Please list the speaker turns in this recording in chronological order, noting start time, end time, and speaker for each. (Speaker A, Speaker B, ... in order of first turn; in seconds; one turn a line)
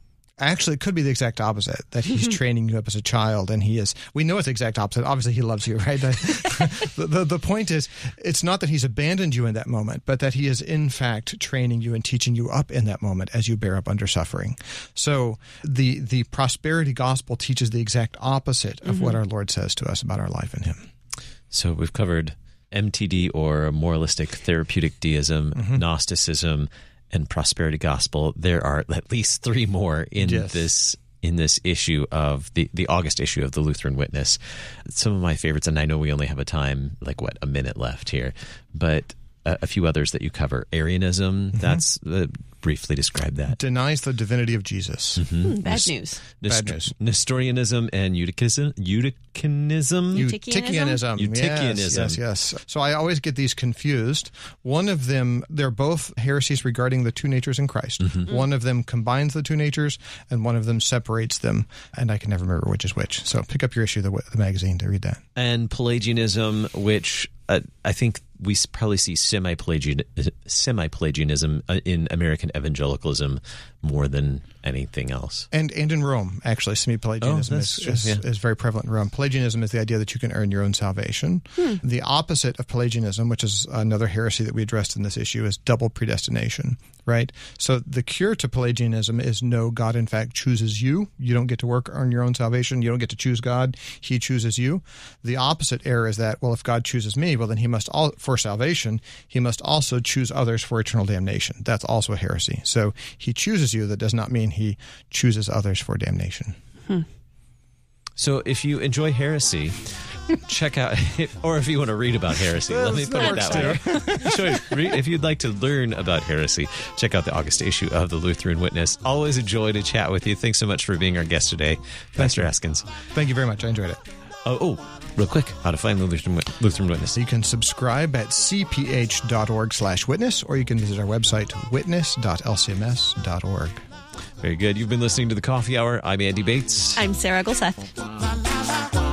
Speaker A: 0.4-20.9
Speaker B: 21.5-43.6
Speaker A: 25.5-25.8
Speaker A: 30.2-30.7
Speaker A: 41.5-41.8
Speaker A: 43.5-45.9
Speaker B: 45.2-45.8
Speaker C: 45.4-46.2
Speaker B: 46.4-50.3
Speaker A: 46.4-46.9
Speaker A: 50.1-65.2
Speaker C: 50.1-51.0
Speaker B: 51.1-52.2
Speaker B: 58.0-58.3
Speaker B: 65.3-75.5
Speaker A: 75.5-106.6
Speaker B: 77.2-78.2
Speaker B: 108.2-122.9
Speaker A: 112.7-114.6
Speaker C: 113.4-113.9
Speaker A: 122.2-122.5
Speaker A: 123.1-124.0
Speaker B: 124.4-127.2
Speaker A: 127.2-133.8
Speaker B: 134.4-137.0
Speaker C: 136.9-137.9